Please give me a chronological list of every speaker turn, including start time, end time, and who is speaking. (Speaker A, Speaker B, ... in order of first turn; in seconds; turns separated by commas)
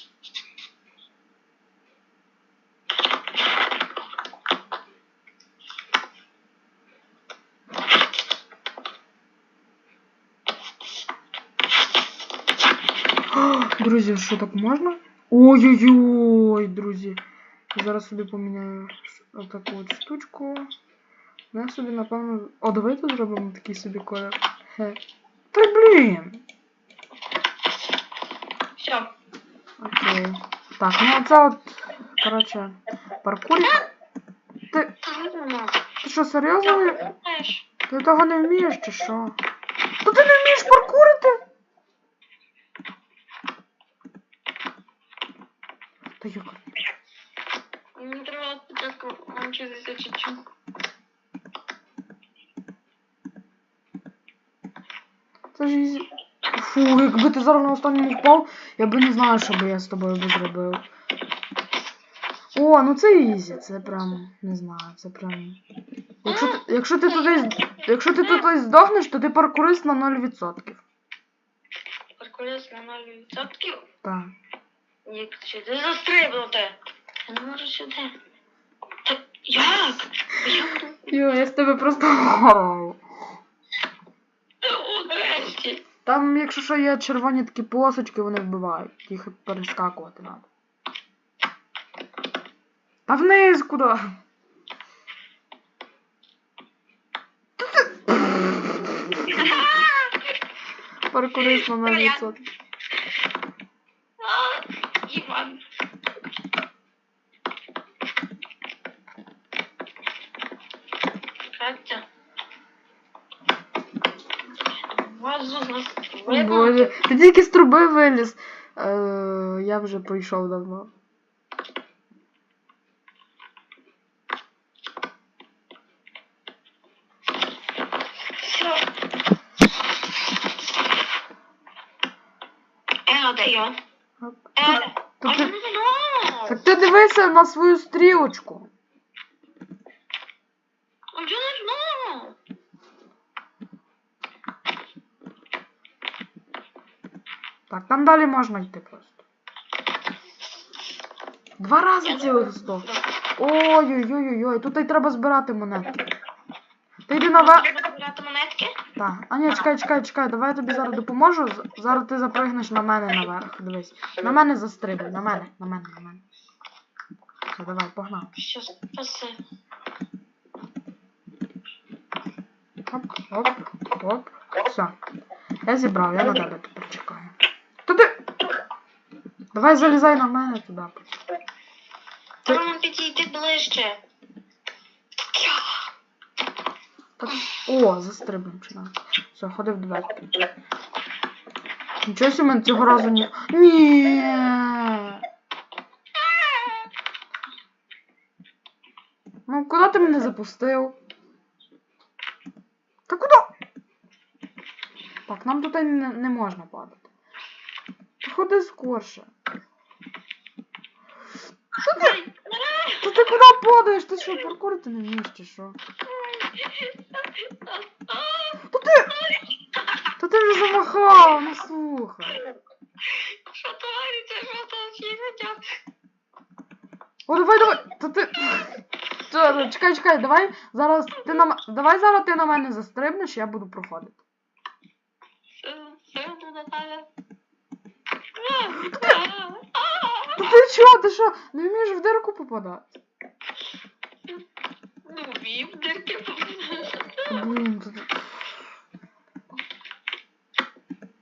Speaker A: 13.3-17.2, Speaker A: 17.7-20.7, Speaker A: 21.5-25.0, Speaker A: 25.5-26.4, Speaker B: 28.8-29.1, Speaker A: 29.8-33.8, Speaker B: 35.0-35.9, Speaker A: 36.0-37.0, Speaker B: 36.6-37.6, Speaker A: 37.9-39.4, Speaker A: 40.0-41.4, Speaker A: 46.2-46.8, Speaker B: 48.0-50.4, Speaker A: 55.5-60.8, Speaker A: 62.5-65.6, Speaker A: 66.2-70.8, Speaker B: 66.3-66.6, Speaker B: 67.3-67.5, Speaker B: 68.2-68.5, Speaker B: 72.2-73.8, Speaker A: 74.0-74.3, Speaker B: 75.1-78.1, Speaker B: 79.1-81.0, Speaker A: 81.1-83.0, Speaker B: 84.6-85.8, Speaker A: 86.0-90.5, Speaker A: 93.1-94.1, Speaker A: 97.6-99.4, Speaker B: 99.3-100.2, Speaker A: 101.1-102.4, Speaker B: 101.3-102.4, Speaker B: 104.2-105.6, Speaker B: 111.5-112.0, Speaker B: 114.9-117.0, Speaker A: 116.3-120.9, Speaker B: 128.4-128.8, Speaker B: 133.1-133.8, Speaker A: 134.2-135.5, Speaker B: 134.6-136.6, Speaker A: 136.5-138.7, Speaker B: 141.2-142.4, Speaker A: 147.7-149.2, Speaker A: 151.6-156.0, Speaker B: 152.1-153.0, Speaker A: 157.1-157.7, Speaker B: 157.3-158.8, Speaker A: 159.0-166.2, Speaker A: 167.5-168.3, Speaker B: 168.4-169.4, Speaker A: 172.9-174.9, Speaker A: 175.7-177.3, Speaker A: 177.9-178.2, Speaker A: 179.5-181.1, Speaker B: 182.5-184.0, Speaker B: 185.3-185.8, Speaker A: 187.2-190.2, Speaker A: 192.1-195.2, Speaker B: 196.2-196.9, Speaker A: 199.5-201.0, Speaker A: 203.1-203.5, Speaker A: 205.3-207.1, Speaker A: 208.2-209.3, Speaker B: 211.8-213.4, Speaker A: 211.9-212.2, Speaker A: 213.0-215.8, Speaker B: 216.1-220.0, Speaker A: 218.7-219.1, Speaker A: 220.2-222.4, Speaker B: 223.1-225.6, Speaker A: 227.3-234.2, Speaker B: 235.6-237.1, Speaker B: 238.4-240.7, Speaker A: 238.7-239.2, Speaker A: 240.4-243.0, Speaker B: 245.1-247.4, Speaker A: 247.3-248.3